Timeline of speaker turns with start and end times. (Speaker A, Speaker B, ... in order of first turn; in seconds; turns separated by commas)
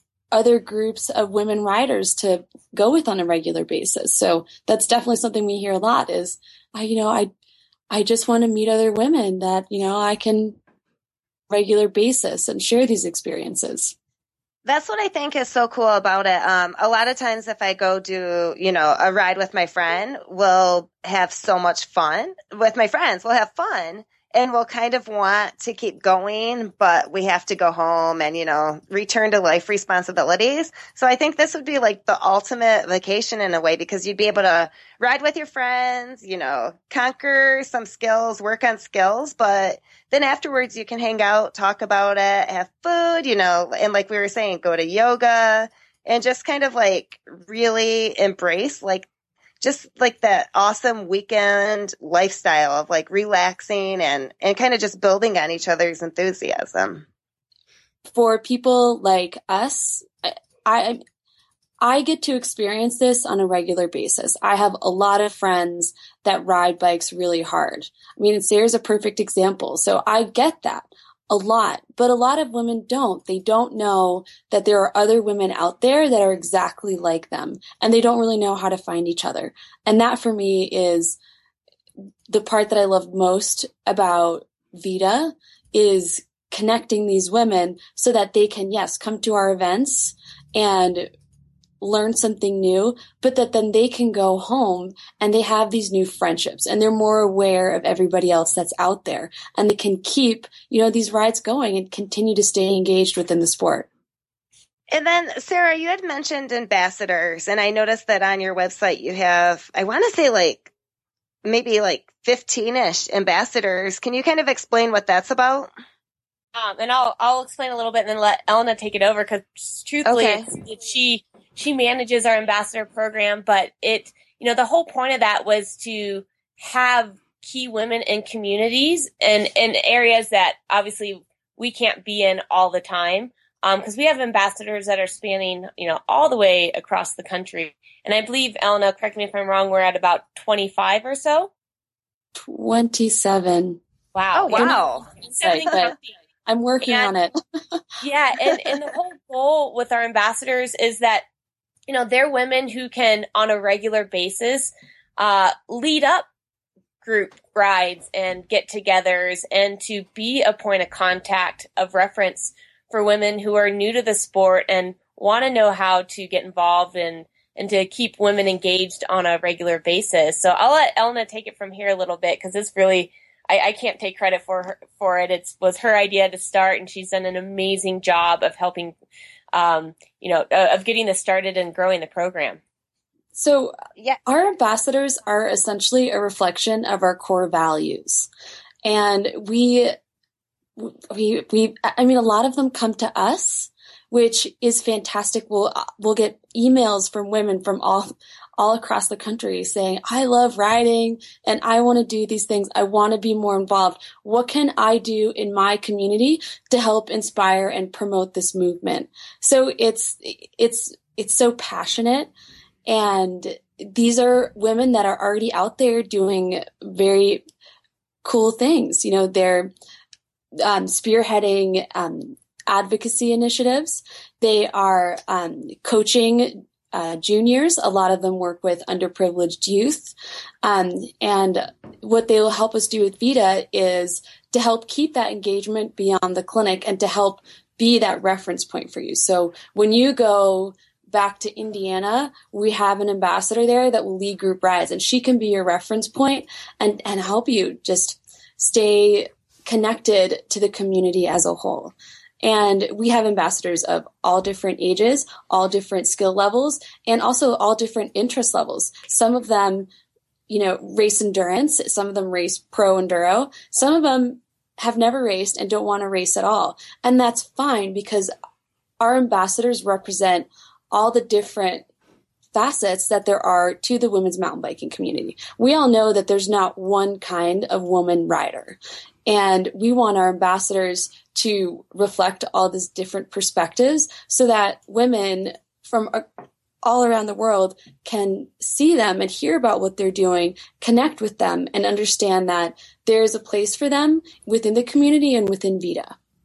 Speaker A: 0.3-7.3, Speaker A: 7.9-10.6, Speaker A: 11.5-13.9, Speaker B: 14.7-49.1, Speaker B: 49.6-57.0, Speaker A: 58.1-61.0, Speaker A: 61.8-81.2, Speaker A: 82.3-91.1, Speaker A: 91.8-103.9, Speaker B: 104.9-110.7, Speaker B: 111.4-115.7, Speaker C: 116.5-141.5, Speaker B: 120.0-120.4, Speaker A: 142.4-143.8, Speaker C: 144.1-146.0, Speaker B: 144.3-145.1, Speaker A: 144.5-145.9, Speaker A: 146.4-147.8, Speaker C: 146.8-147.1, Speaker C: 148.0-151.2, Speaker C: 151.9-156.3, Speaker C: 157.0-178.9, Speaker C: 179.5-182.6, Speaker A: 183.3-188.3, Speaker A: 188.8-190.0, Speaker A: 190.8-212.3, Speaker A: 212.8-217.4, Speaker A: 218.2-219.7, Speaker A: 220.6-259.9, Speaker A: 260.5-268.3, Speaker A: 269.0-271.9, Speaker A: 272.5-286.2, Speaker A: 286.8-296.1